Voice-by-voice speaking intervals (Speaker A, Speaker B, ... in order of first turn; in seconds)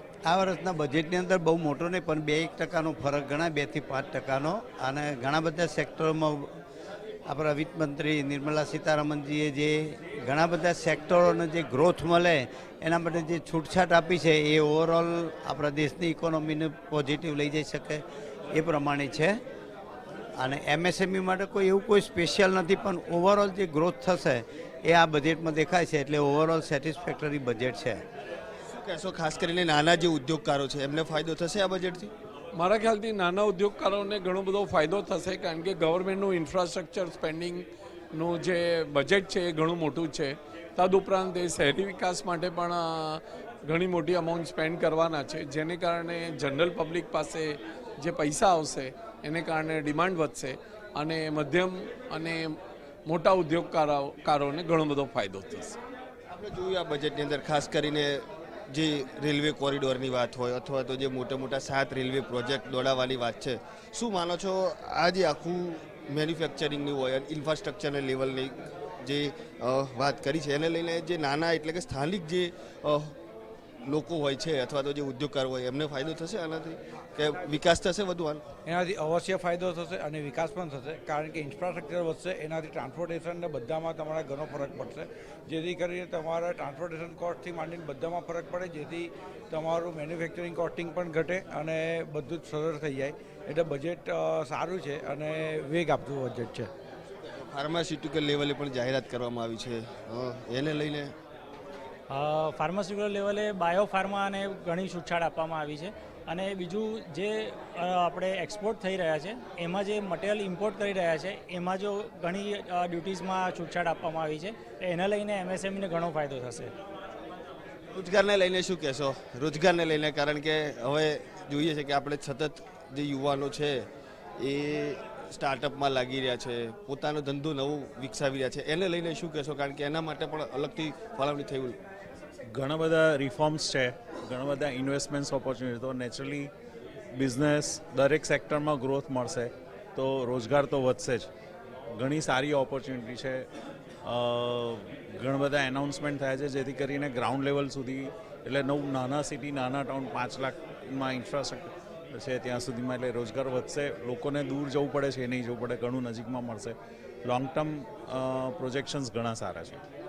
Speaker A: 0.3-6.5, 7.3-19.4, 20.4-28.0
Speaker B: 28.7-32.1, 56.3-73.2, 73.8-78.4, 97.4-101.1, 117.9-123.8, 124.4-131.8
Speaker C: 32.5-55.8
Speaker D: 78.7-96.7
Speaker E: 102.1-116.7
Speaker F: 132.5-136.5, 137.2-141.3, 141.9-143.5, 144.0-159.8